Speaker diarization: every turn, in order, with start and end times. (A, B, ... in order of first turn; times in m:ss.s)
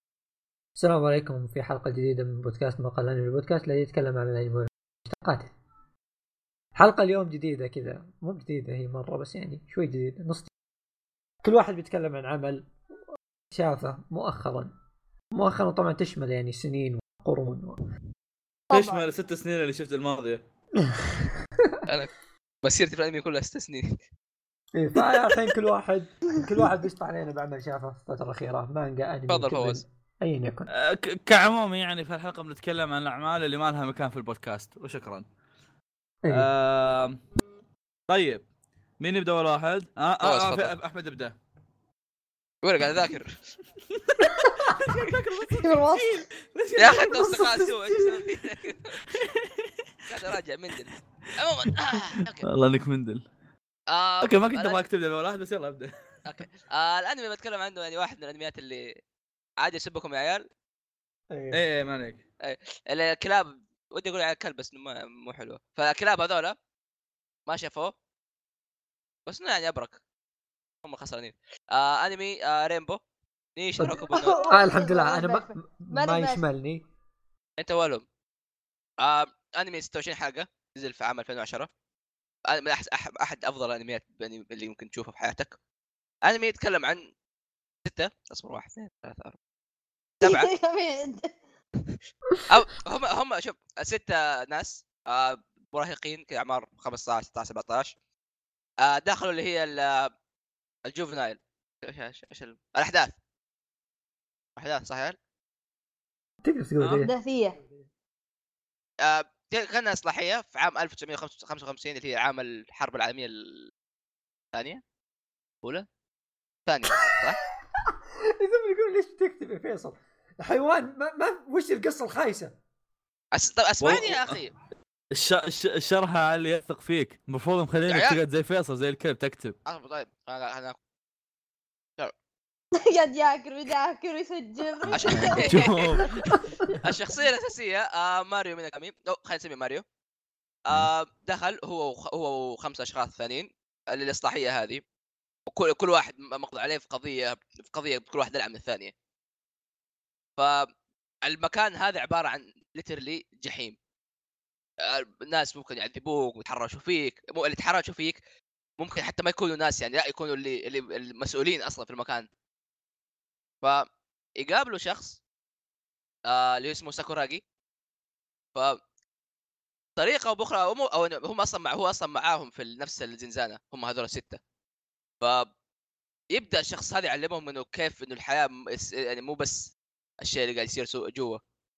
0:00.8-0:05.5 A
0:06.8-0:10.5 A
0:11.4-0:12.7 A
0:13.5-0:14.7 A
0:15.3-0:17.8 A
0:18.7-0:19.1 B
0:18.7-0:20.4 C
0:20.8-0:21.8 A
0:22.6-0:24.0 D
0:24.7-0:30.7 A
0:29.3-0:29.8 D
0:30.7-0:35.2 C
0:36.2-0:36.5 A
0:36.3-0:37.2 C
0:38.1-0:38.4 C
0:39.0-0:41.3 C
0:40.2-0:40.7 D
0:42.6-0:43.3 D
0:43.9-0:47.6 C
0:44.5-0:45.0 A
0:45.6-0:46.2 B
0:46.8-0:49.0 D
0:47.1-0:48.2 A
0:49.1-0:49.7 C
0:50.1-0:52.5 D
0:51.9-0:53.2 C
0:53.9-0:54.8 D
0:54.2-0:55.9 C
0:56.2-0:58.9 D
0:59.6-1:00.4 D
1:01.3-1:01.6 A
1:01.5-1:02.2 C
1:02.4-1:06.5 D
1:07.5-1:07.9 D
1:09.3-1:10.0 D
1:10.8-1:13.0 D
1:13.6-1:14.4 D
1:13.8-1:16.8 A
1:13.9-1:16.4 B
1:17.6-1:18.0 D
1:19.0-1:21.7 D
1:22.5-1:25.5 D
1:26.2-1:27.0 D
1:27.8-1:29.4 D
1:30.2-1:30.5 D
1:30.2-1:31.3 B
1:32.5-1:37.9 D
1:38.8-1:40.1 D
1:40.8-1:43.1 D
1:44.6-1:45.2 D
1:46.4-1:47.1 A
1:47.0-1:47.6 B
1:49.0-1:53.7 D
1:54.5-1:54.8 D
1:56.6-1:57.4 D
1:57.0-1:57.3 A
1:57.8-2:02.5 A
2:03.3-2:04.5 D
2:03.8-2:04.4 C
2:05.1-2:09.6 C
2:07.9-2:08.2 D
2:09.6-2:10.8 D
2:12.8-2:15.7 B
2:14.9-2:19.8 D
2:15.1-2:15.4 A
2:15.4-2:16.2 C
2:16.3-2:16.8 A
2:20.6-2:24.8 D
2:25.5-2:28.9 D
2:30.4-2:30.6 D
2:31.2-2:33.8 D
2:34.8-2:38.2 D
2:38.8-2:42.2 D
2:44.4-2:45.2 D
2:46.3-2:47.4 D
2:50.0-2:54.4 D
2:55.2-2:55.5 D
2:56.3-3:01.4 D